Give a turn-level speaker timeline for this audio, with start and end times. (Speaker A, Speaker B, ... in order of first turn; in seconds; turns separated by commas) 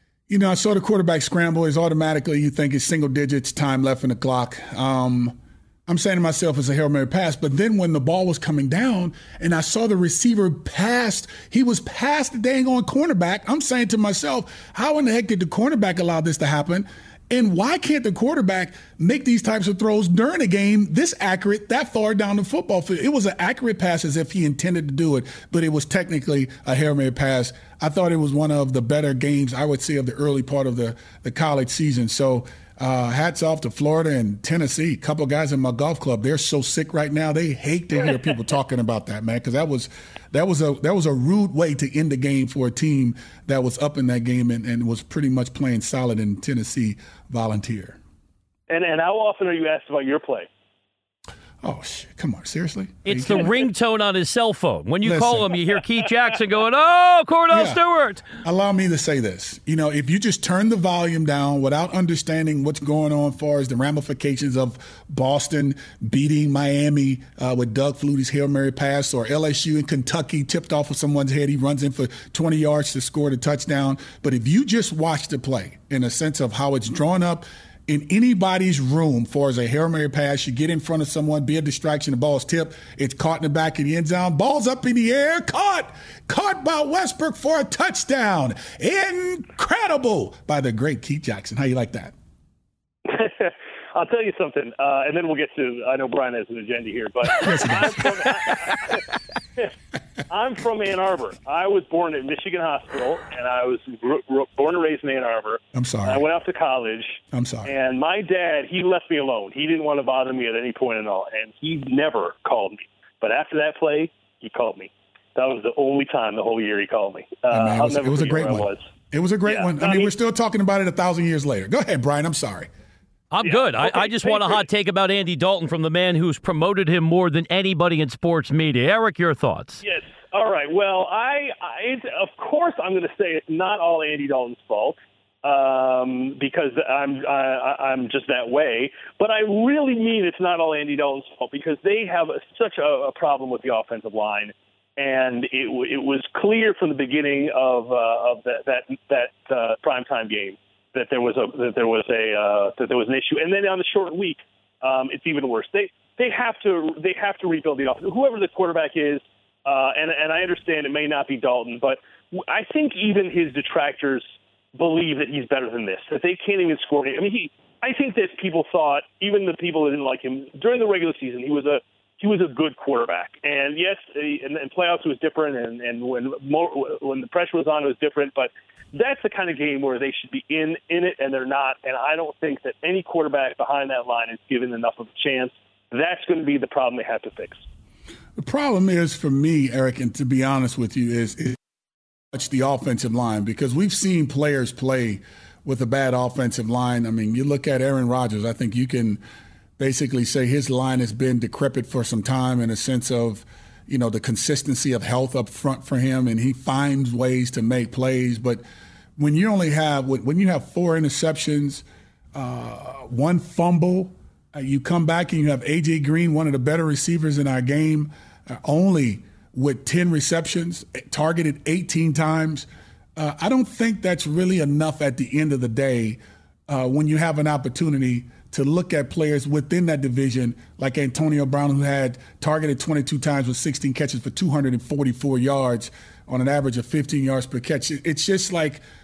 Speaker A: 0.3-48.0, Speaker B: 48.7-50.5, Speaker A: 51.6-53.5, Speaker C: 53.0-58.2, Speaker A: 55.0-55.5, Speaker A: 57.5-57.8, Speaker A: 58.4-92.2, Speaker B: 93.1-99.0, Speaker A: 97.3-98.5, Speaker B: 100.3-118.8, Speaker A: 105.7-106.2, Speaker A: 107.3-107.7, Speaker A: 117.5-122.7, Speaker B: 119.5-120.1, Speaker C: 123.3-129.8, Speaker B: 123.4-124.6, Speaker B: 129.8-164.2, Speaker B: 164.8-187.6, Speaker A: 188.4-191.6, Speaker A: 192.3-199.2, Speaker A: 199.8-208.6, Speaker A: 209.2-238.8